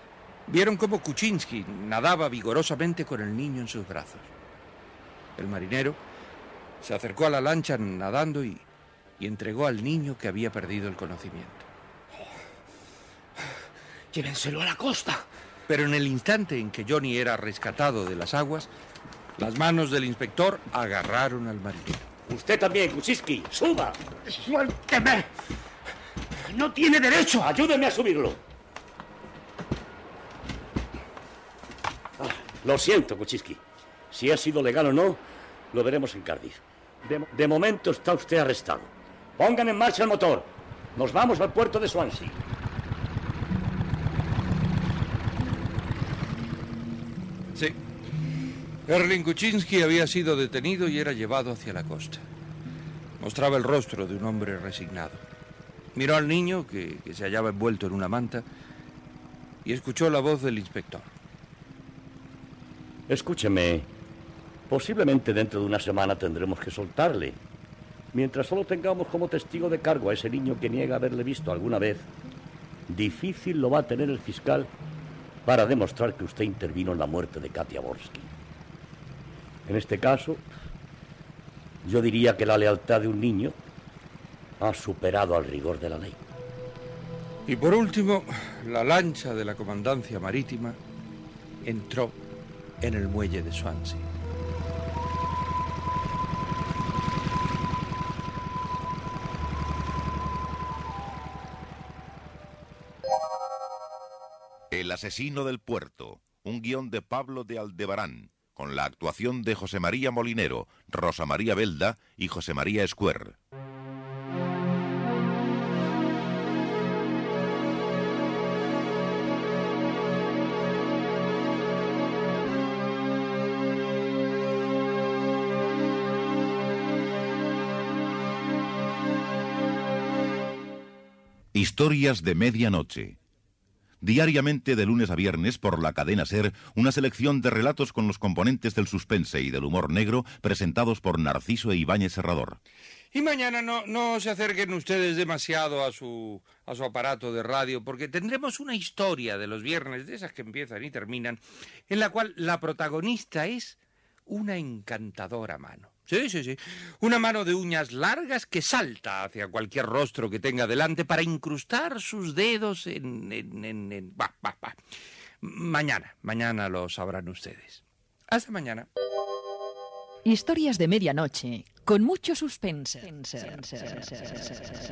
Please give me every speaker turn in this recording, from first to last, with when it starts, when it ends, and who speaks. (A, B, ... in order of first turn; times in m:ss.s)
0:00.5-0:04.3 A
0:05.4-0:06.0 A
0:06.8-0:08.6 A
0:09.2-0:11.7 A
0:14.1-0:15.3 B
0:15.7-0:18.7 A
0:19.4-0:22.1 A
0:22.3-0:24.0 C
0:24.3-0:25.3 B
0:26.5-0:27.5 B
0:27.4-0:28.4 C
0:32.2-0:42.4 C
0:48.9-0:52.2 A
0:53.2-0:55.2 A
0:56.0-0:58.4 A
0:59.6-1:01.1 A
1:03.1-1:03.9 C
1:04.7-1:07.4 C
1:08.1-1:12.1 C
1:12.9-1:14.7 C
1:15.5-1:18.3 C
1:19.7-1:20.5 C
1:21.8-1:23.6 C
1:24.6-1:26.2 C
1:27.5-1:30.8 A
1:31.6-1:32.2 A
1:32.8-1:34.1 A
1:44.7-1:53.4 D
2:11.5-2:13.2 D
2:14.0-2:22.6 D
2:23.1-2:44.8 A
2:45.4-2:48.9 A
2:50.3-2:54.7 E